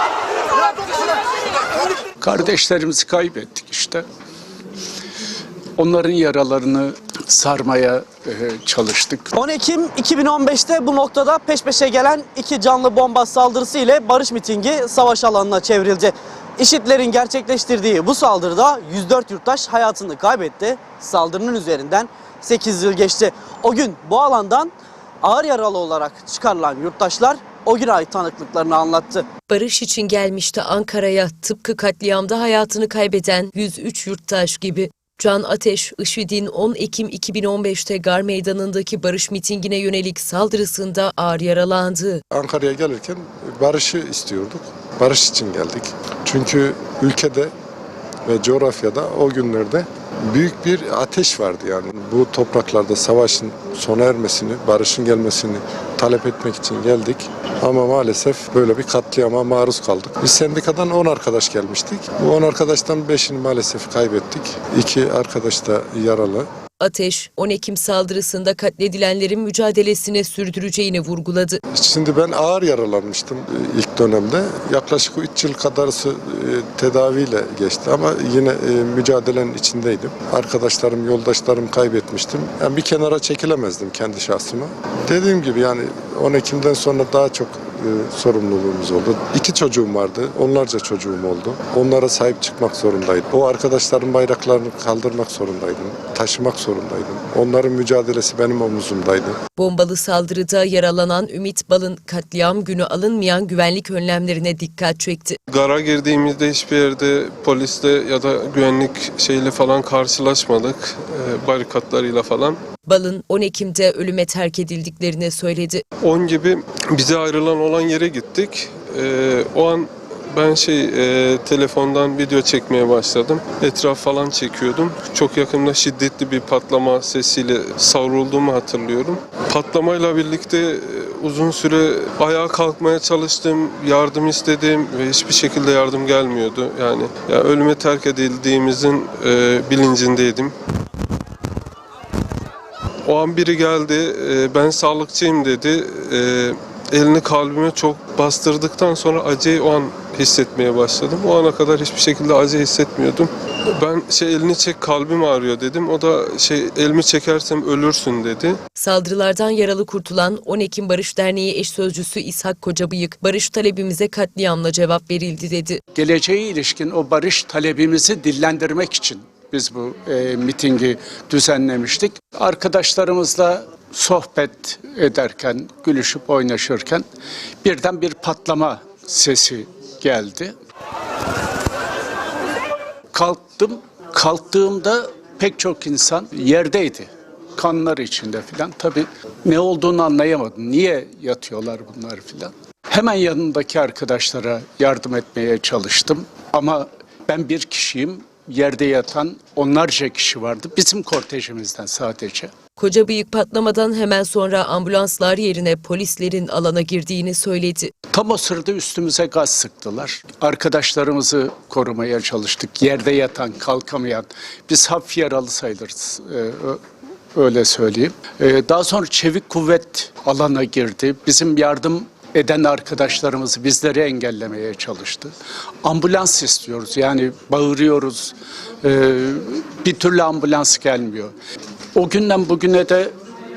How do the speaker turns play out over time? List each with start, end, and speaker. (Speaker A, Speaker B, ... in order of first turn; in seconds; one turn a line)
Speaker A: 2.2-4.0
Speaker A: 5.8-9.4
Speaker B: 9.4-24.7
Speaker B: 25.2-29.2
Speaker C: 29.5-42.2
Speaker D: 42.3-47.5
Speaker D: 48.2-66.5
Speaker C: 66.9-71.6
Speaker D: 71.7-99.4
Speaker C: 99.6-105.3
Speaker E: 105.5-112.6
Speaker C: 112.9-115.8
Speaker E: 116.0-140.5
Speaker E: 143.1-158.6
Speaker C: 158.8-165.8
Speaker A: 165.9-177.1
Speaker A: 177.6-180.5
Speaker A: 183.1-202.5
Speaker C: 202.8-207.8
Speaker A: 208.1-216.8
Speaker A: 217.3-231.3
Speaker A: 231.9-233.1